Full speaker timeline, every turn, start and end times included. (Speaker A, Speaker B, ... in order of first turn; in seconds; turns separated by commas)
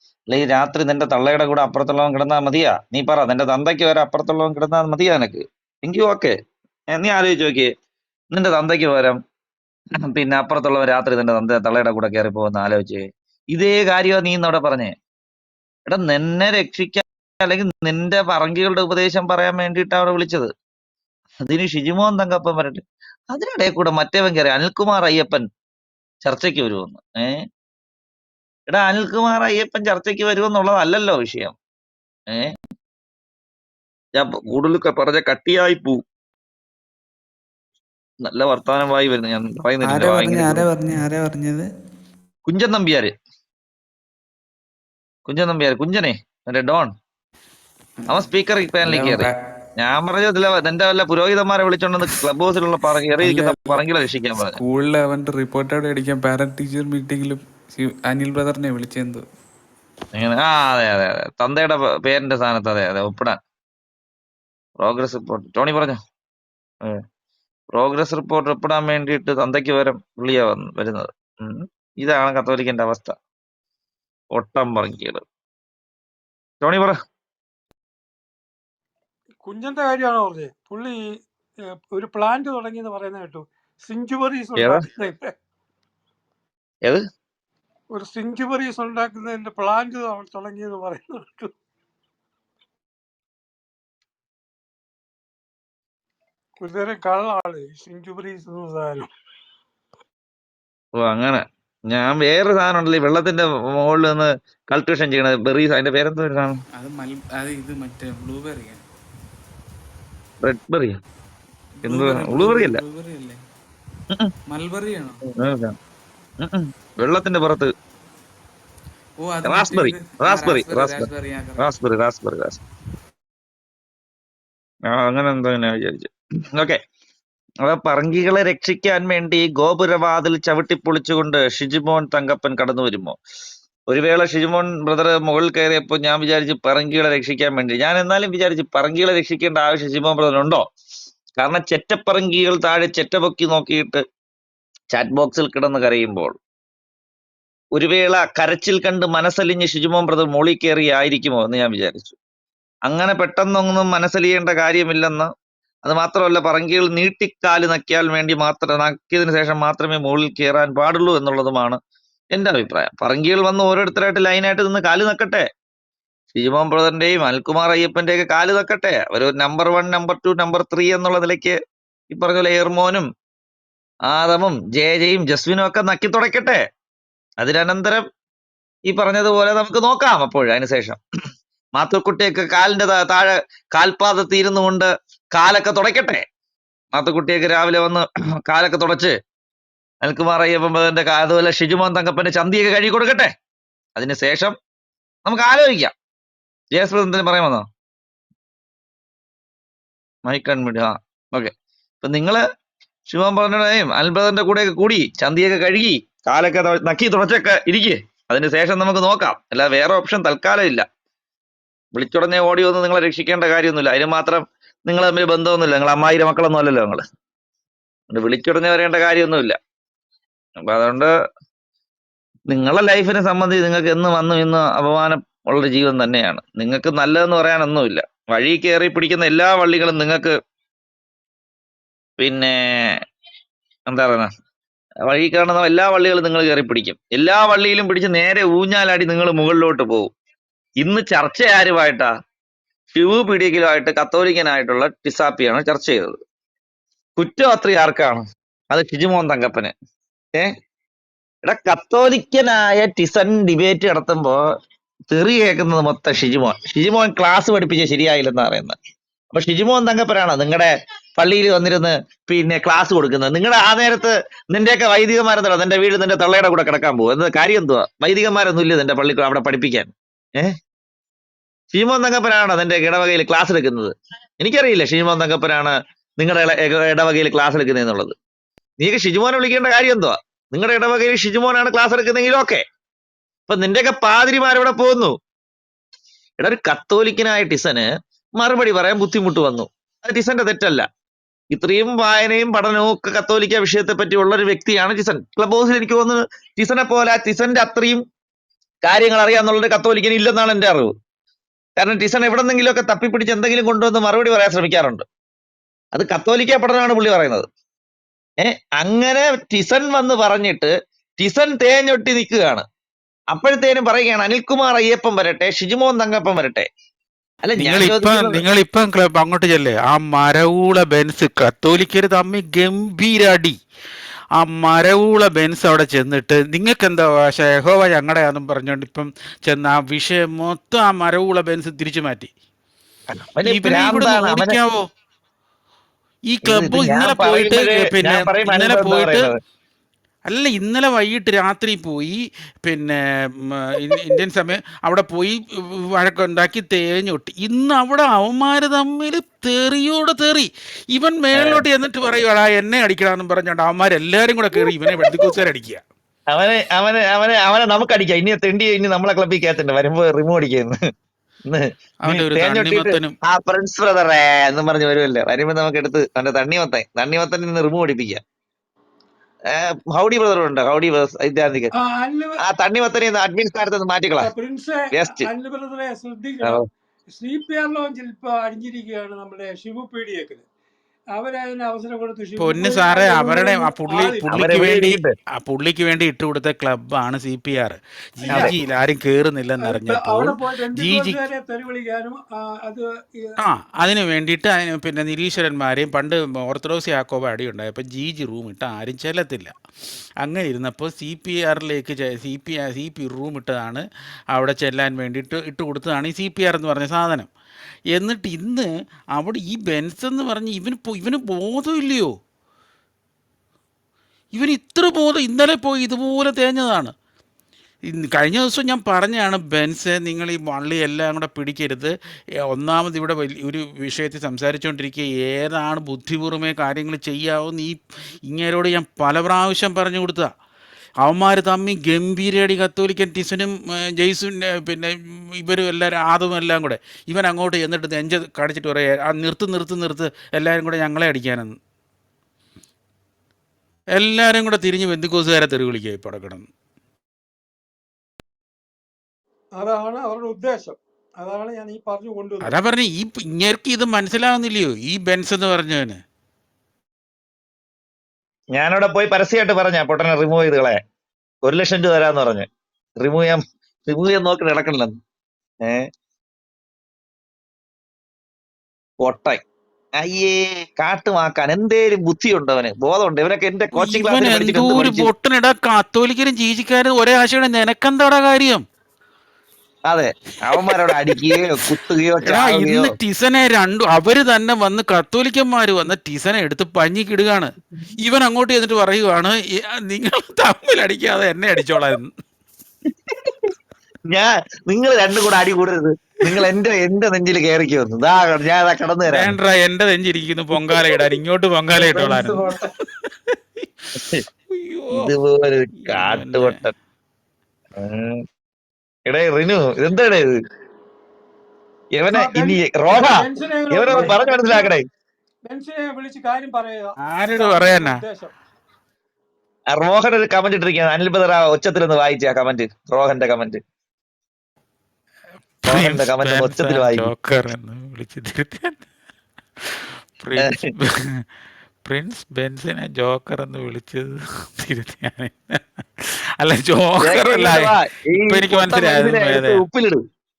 Speaker A: 0.3-6.3, Speaker A: 6.9-7.7, Speaker A: 8.3-9.2, Speaker A: 10.1-14.9, Speaker A: 15.9-20.5, Speaker A: 21.4-25.4, Speaker A: 26.2-27.4, Speaker A: 28.7-31.5, Speaker A: 34.2-36.0, Speaker A: 38.2-40.7, Speaker B: 39.8-41.7, Speaker A: 42.5-43.1, Speaker A: 45.2-46.9, Speaker A: 48.1-54.6, Speaker B: 48.8-49.4, Speaker B: 53.2-59.2, Speaker A: 60.1-63.4, Speaker A: 64.8-66.0, Speaker A: 67.7-73.2, Speaker A: 74.3-75.2, Speaker A: 76.6-76.9, Speaker C: 79.4-81.0, Speaker C: 81.9-85.3, Speaker A: 84.6-84.8, Speaker C: 87.9-91.5, Speaker C: 96.6-99.1, Speaker A: 101.0-106.5, Speaker B: 106.8-108.8, Speaker A: 110.4-111.0, Speaker B: 111.8-113.4, Speaker A: 111.8-112.8, Speaker B: 114.5-115.2, Speaker A: 115.3-115.7, Speaker A: 116.4-117.7, Speaker B: 119.2-121.7, Speaker A: 119.4-122.6, Speaker A: 124.9-126.8, Speaker A: 127.6-133.2, Speaker A: 133.9-140.6, Speaker A: 141.4-144.0, Speaker A: 144.9-146.3, Speaker A: 147.8-152.2, Speaker A: 152.9-155.3, Speaker A: 155.8-161.8, Speaker A: 162.3-165.4, Speaker A: 166.3-171.6, Speaker A: 172.1-173.1, Speaker A: 174.1-176.6, Speaker A: 177.4-178.0, Speaker A: 178.9-181.0, Speaker A: 181.8-186.2, Speaker A: 186.9-189.1, Speaker A: 190.0-193.3, Speaker A: 193.9-194.5, Speaker A: 195.2-195.9, Speaker A: 196.7-197.7, Speaker A: 200.3-202.4, Speaker A: 203.1-210.8, Speaker A: 211.9-217.0, Speaker A: 218.1-219.6, Speaker A: 220.7-221.1, Speaker A: 222.5-230.3, Speaker A: 232.2-232.9, Speaker A: 233.9-234.3, Speaker A: 235.1-240.1, Speaker A: 240.8-242.1, Speaker A: 242.9-246.2, Speaker A: 247.2-249.7, Speaker A: 251.4-254.4, Speaker A: 255.1-258.8, Speaker A: 259.3-270.5, Speaker A: 271.7-278.1, Speaker A: 278.8-282.6, Speaker A: 283.5-285.1, Speaker A: 286.4-287.9, Speaker A: 288.4-290.9, Speaker A: 291.5-298.0, Speaker A: 298.8-300.9, Speaker A: 301.8-305.0, Speaker A: 305.9-307.4, Speaker A: 308.4-312.6, Speaker A: 313.3-316.7, Speaker A: 317.4-318.4, Speaker D: 317.6-323.6, Speaker D: 324.4-332.3, Speaker A: 333.1-334.6, Speaker D: 333.4-334.8, Speaker D: 336.3-339.2, Speaker A: 336.4-339.3, Speaker D: 340.3-355.8, Speaker A: 351.4-351.6, Speaker A: 356.3-360.8, Speaker A: 361.5-368.2, Speaker D: 362.0-363.1, Speaker A: 369.5-371.7, Speaker C: 371.8-372.4, Speaker A: 372.4-374.3, Speaker C: 374.2-380.4, Speaker A: 374.9-375.3, Speaker C: 381.1-384.4, Speaker D: 382.4-391.2, Speaker A: 384.3-385.1, Speaker A: 388.3-388.5, Speaker C: 389.6-393.3, Speaker D: 393.4-399.5, Speaker D: 400.2-407.3, Speaker D: 407.9-412.1, Speaker D: 414.3-416.9, Speaker D: 417.9-421.9, Speaker D: 422.5-430.3, Speaker D: 431.0-441.5, Speaker D: 443.9-446.4, Speaker C: 449.6-452.5, Speaker D: 452.4-456.0, Speaker A: 458.5-460.8, Speaker A: 461.4-462.5, Speaker A: 463.0-464.9, Speaker A: 469.0-469.4, Speaker A: 470.0-475.1, Speaker D: 473.7-478.6, Speaker A: 479.9-482.9, Speaker D: 482.2-487.5, Speaker D: 488.0-492.1, Speaker A: 494.1-499.3, Speaker D: 499.1-502.4, Speaker D: 503.0-503.3, Speaker D: 504.5-505.1, Speaker A: 504.9-506.7, Speaker D: 505.8-506.6, Speaker A: 507.8-508.2, Speaker A: 509.1-510.2, Speaker A: 511.9-514.8, Speaker C: 512.1-514.7, Speaker C: 515.4-518.3, Speaker D: 517.0-518.0, Speaker A: 519.7-523.6, Speaker D: 525.6-528.8, Speaker A: 525.7-527.1, Speaker D: 530.2-531.2, Speaker D: 531.8-539.6, Speaker A: 537.0-540.0